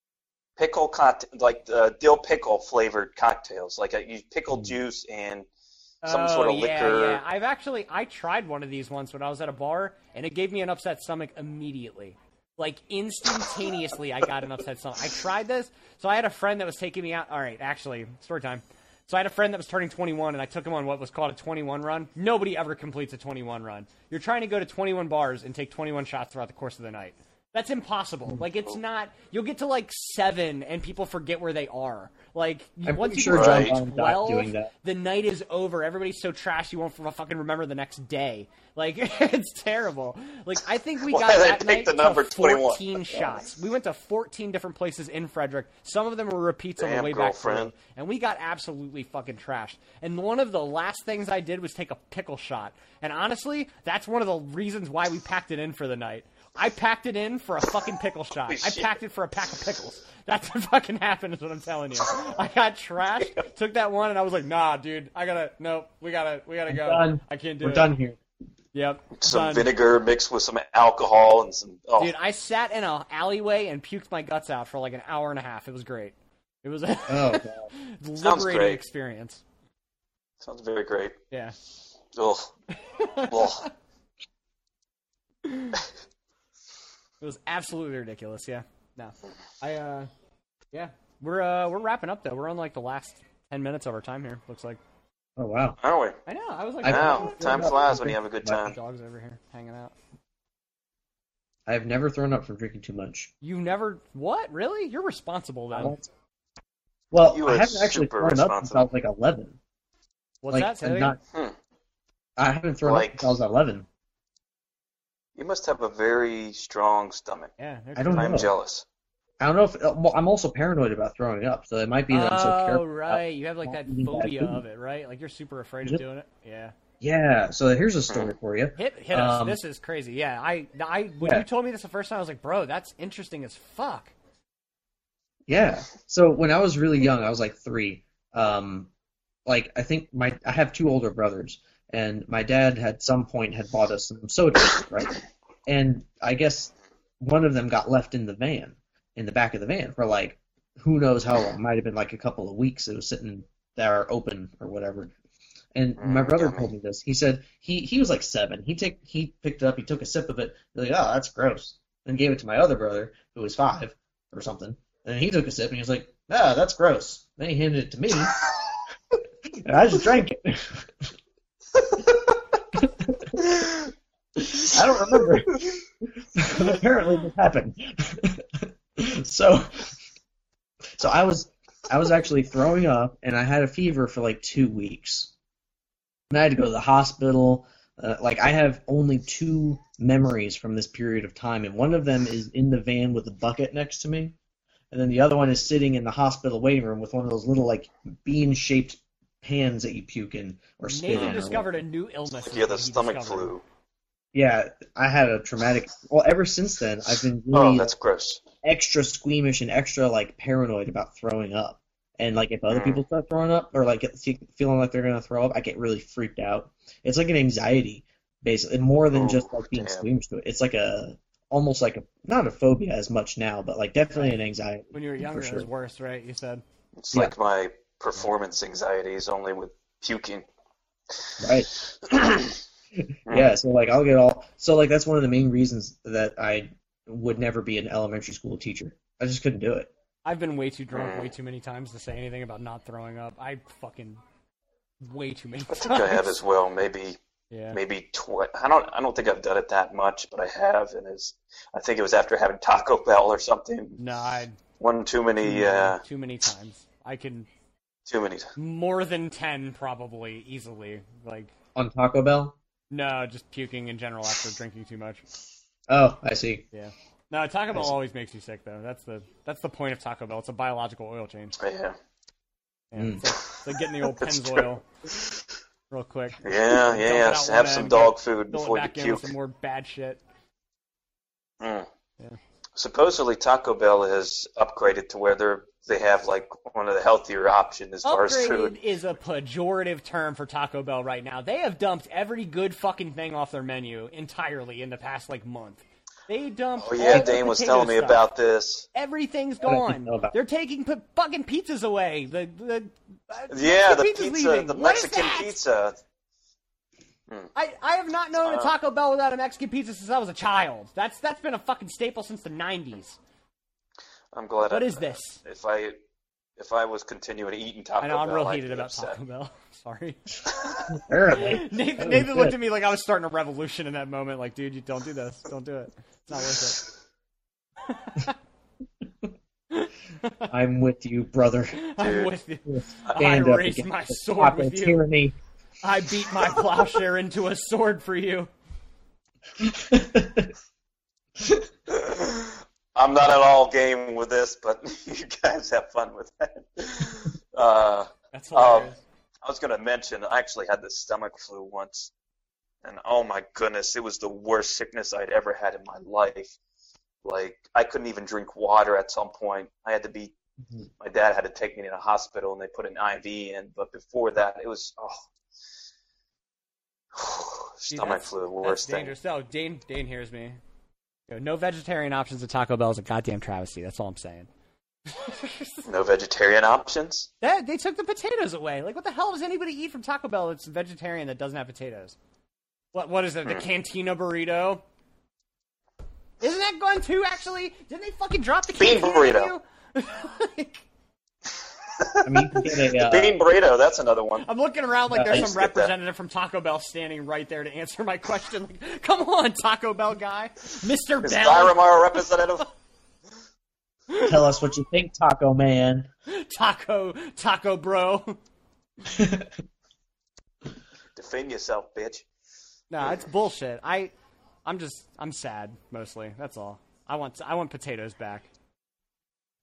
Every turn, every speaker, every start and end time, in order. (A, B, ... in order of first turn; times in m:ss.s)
0:00.6-0:05.5 A
0:06.0-1:07.9 B
0:06.0-0:07.2 A
0:32.8-0:34.7 C
0:33.3-0:33.8 A
0:41.1-0:43.0 A
0:46.8-0:47.7 A
0:58.5-0:58.9 A
1:06.7-1:08.2 C
1:08.7-1:09.7 B
1:09.2-1:12.1 A
1:12.0-1:19.4 B
1:17.1-1:17.7 C
1:18.2-1:18.8 A
1:20.4-1:21.2 A
1:22.2-1:22.5 A
1:22.8-1:23.7 B
1:23.3-1:23.7 A
1:25.4-1:25.8 B
1:27.2-1:30.1 B
1:30.7-1:34.8 B
1:35.4-1:35.8 C
1:35.8-1:36.2 A
1:36.3-1:39.9 B
1:36.8-1:38.7 C
1:36.8-1:38.8 A
1:41.7-1:43.3 C
1:43.4-1:46.0 B
1:45.7-1:46.1 C
1:47.1-1:49.6 C
1:47.2-1:48.9 A
1:50.4-1:51.2 B
1:50.5-1:51.2 C
1:52.4-1:53.9 C
1:52.8-1:53.3 A
1:55.4-1:57.5 A
1:57.6-1:58.5 B
1:58.0-1:58.5 C
1:58.1-1:58.8 A
1:59.4-2:04.6 C
2:02.1-2:06.7 B
2:07.0-2:09.6 C
2:08.1-2:08.4 A
2:08.8-2:14.1 B
2:15.5-2:18.9 C
2:19.5-2:35.1 C
2:35.7-2:48.4 C
2:36.0-2:36.7 A
2:49.6-2:51.1 C
2:52.8-2:53.4 C
2:54.4-2:55.6 C
2:56.2-3:00.0 C
3:01.0-3:05.3 C
3:06.3-3:14.4 C
3:14.9-3:21.7 C
3:20.9-3:23.5 B
3:21.1-3:21.4 A
3:22.3-3:23.6 A
3:24.3-3:27.9 C
3:27.5-3:28.4 A
3:28.6-3:45.7 C
3:32.7-3:33.0 A
3:39.1-3:40.1 A
3:44.9-3:46.6 B
3:47.0-3:50.5 A
3:51.4-3:52.4 C
3:52.1-3:52.5 A
3:53.0-3:59.9 C
4:00.2-4:04.2 B
4:00.9-4:01.3 A
4:05.0-4:06.4 B
4:05.7-4:07.2 A
4:07.5-4:07.8 B
4:07.7-4:14.0 A
4:14.0-4:14.6 B
4:14.8-4:16.0 A
4:15.4-4:17.5 B
4:18.1-4:18.5 A
4:18.6-4:21.5 B
4:21.8-4:22.6 C
4:22.9-4:25.2 B
4:25.9-4:26.6 C
4:26.7-4:31.6 B
4:31.6-4:32.0 A
4:32.9-4:34.9 B
4:33.0-4:33.2 C
4:34.0-4:35.4 A
4:35.9-4:40.2 B
4:36.4-4:39.3 A
4:41.6-4:41.9 A
4:42.8-4:48.8 A
4:48.0-4:58.2 B
4:56.8-4:58.9 A
4:58.9-5:05.6 B
4:59.6-5:00.4 C
5:03.5-5:06.0 A
5:07.6-5:13.2 B
5:08.4-5:08.7 A
5:14.3-5:16.0 A
5:14.7-5:15.4 B
5:16.6-5:19.2 A
5:18.0-5:26.8 B
5:20.9-5:22.6 C
5:27.8-5:28.4 B
5:29.7-5:30.5 B
5:30.5-5:31.9 C
5:31.8-5:35.0 B
5:32.0-5:32.3 A
5:32.7-5:35.4 C
5:35.8-5:38.5 B
5:39.6-5:40.5 C
5:41.4-5:41.7 C
5:41.9-5:52.1 A
5:48.3-5:49.0 B
5:52.8-5:56.6 A
5:57.2-6:00.3 A
6:01.0-6:05.2 A
6:07.1-6:09.1 A
6:07.9-6:10.6 B
6:11.3-6:14.5 B
6:15.1-6:15.9 B
6:15.9-6:17.3 A
6:17.4-6:22.2 B
6:22.9-6:24.8 B
6:26.4-6:30.8 B
6:28.8-6:29.5 A
6:32.0-6:34.5 A
6:32.2-6:33.4 C
6:34.4-6:42.2 B
6:35.1-6:35.5 C
6:35.3-6:35.9 A
6:41.2-6:42.7 A
6:44.1-6:44.4 B
6:44.2-6:46.1 C
6:46.3-6:48.4 B
6:49.1-6:49.5 C
6:51.2-6:52.2 A
6:52.9-6:54.1 B
6:54.6-6:58.5 B